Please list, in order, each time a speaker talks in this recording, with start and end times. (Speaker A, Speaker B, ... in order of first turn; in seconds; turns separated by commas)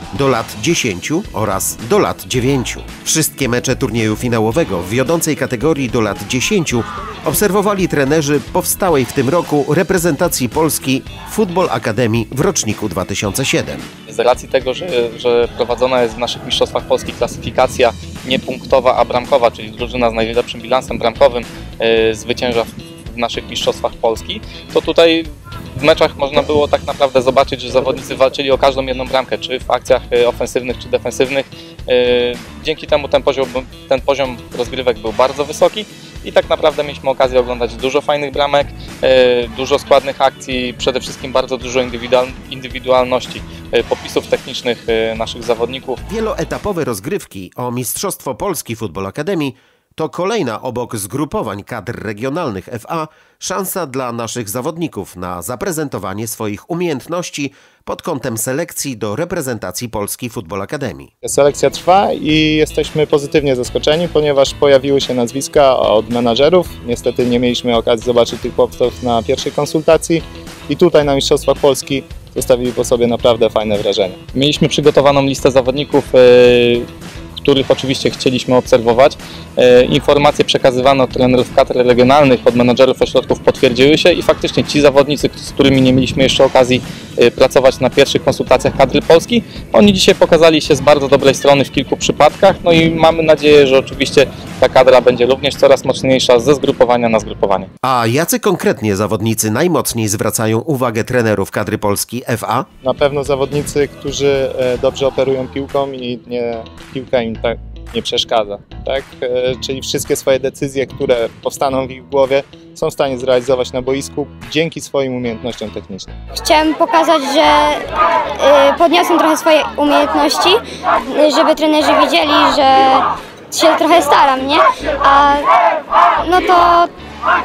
Speaker A: 0.1-13.9, Speaker B: 14.1-46.0, Speaker A: 46.1-61.1, Speaker C: 61.2-74.2, Speaker B: 74.3-76.9, Speaker B: 77.4-97.7, Speaker A: 97.8-102.7, Speaker C: 102.8-116.2, Speaker D: 116.3-125.5, Speaker D: 126.2-126.9